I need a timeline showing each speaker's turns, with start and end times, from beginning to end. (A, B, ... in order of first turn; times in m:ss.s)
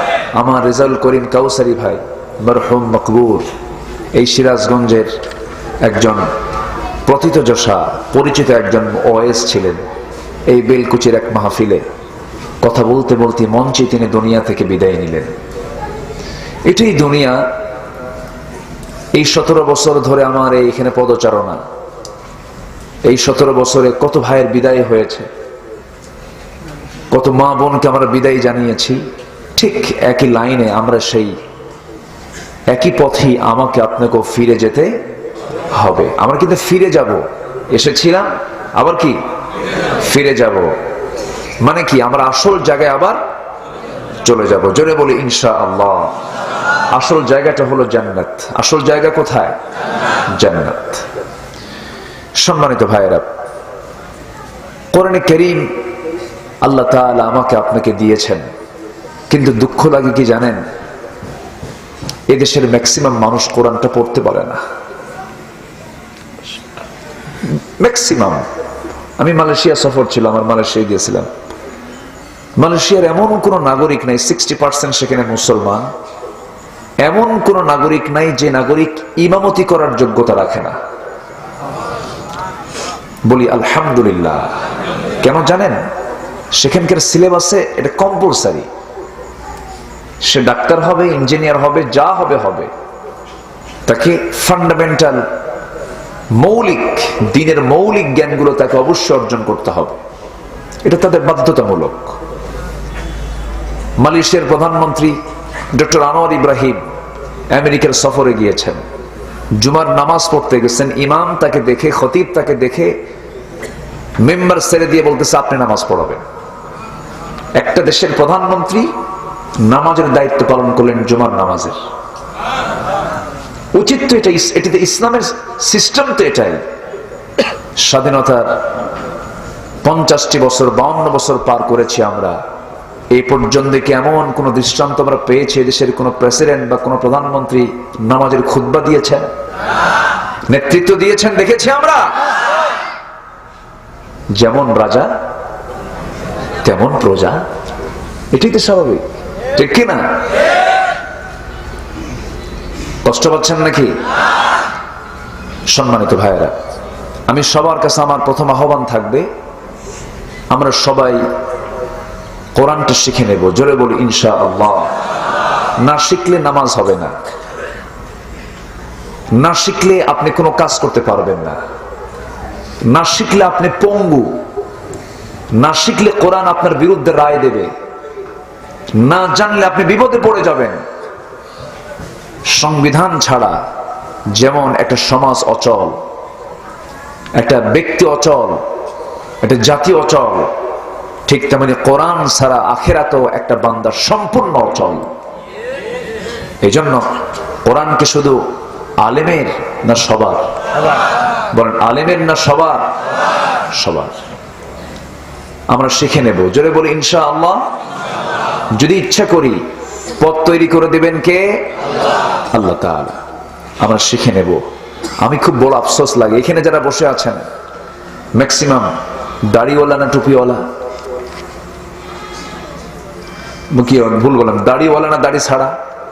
0:00.3-0:03.5 A
0:04.2-0:05.1 A
0:05.8-0:06.2 A
0:07.1-0:09.8 A
0:10.5-0:11.8 A
0:12.6-0:15.3 A
0:16.7-0:17.4 A
0:19.1-0:21.6 A
0:23.1-0:25.3 A
0:27.1-0:29.0 A
0:29.6-0:31.3 A
0:32.7-0:34.9 A
0:35.8-0:39.2 A
0:40.0-0:40.7 A
0:41.6-0:43.2 A
0:44.2-0:46.1 A
0:46.9-0:49.6 A
0:50.4-0:51.0 A
0:52.4-0:53.2 A
0:54.9-0:55.6 A
0:56.6-0:58.4 A
0:59.3-1:00.6 A
1:02.3-1:04.6 A
1:07.8-1:08.4 A
1:09.2-1:11.3 A
1:12.6-1:15.8 A
1:17.0-1:20.8 A
1:23.3-1:24.5 A
1:25.2-1:25.8 A
1:26.5-1:28.6 A
1:30.2-1:32.7 A
1:33.9-1:35.2 A
1:36.4-1:40.0 A
1:40.8-1:42.2 A
1:44.0-1:45.2 A
1:45.7-1:46.8 A
1:47.5-1:48.8 A
1:49.6-1:52.9 A
1:54.2-1:56.2 A
1:57.6-1:58.9 A
1:59.6-2:01.8 A
2:03.7-2:06.6 A
2:07.8-2:08.6 A
2:09.8-2:12.4 A
2:13.1-2:19.3 A
2:20.5-2:22.2 A
2:24.4-2:25.1 A
2:26.6-2:27.4 A
2:28.3-2:29.0 A
2:29.6-2:30.0 A
2:33.0-2:33.9 A
2:35.7-2:36.5 A
2:37.3-2:39.3 A
2:40.5-2:41.2 A
2:42.5-2:44.9 A
2:45.8-2:47.1 A
2:49.4-2:51.6 A
2:52.9-2:54.4 A
2:55.6-2:57.7 A
2:59.0-3:00.8 A
3:02.5-3:03.6 A
3:04.3-3:06.0 A
3:07.4-3:08.6 A
3:09.4-3:10.5 A
3:11.3-3:15.1 A
3:16.6-3:17.0 A
3:17.6-3:18.4 A
3:19.0-3:20.4 A
3:21.5-3:22.8 A
3:23.7-3:24.1 A
3:25.7-3:27.6 A
3:28.8-3:29.6 A
3:30.2-3:31.6 A
3:32.5-3:33.2 A
3:33.8-3:34.6 A
3:35.2-3:37.4 A
3:38.4-3:38.9 A
3:39.5-3:40.6 A
3:43.7-3:45.7 A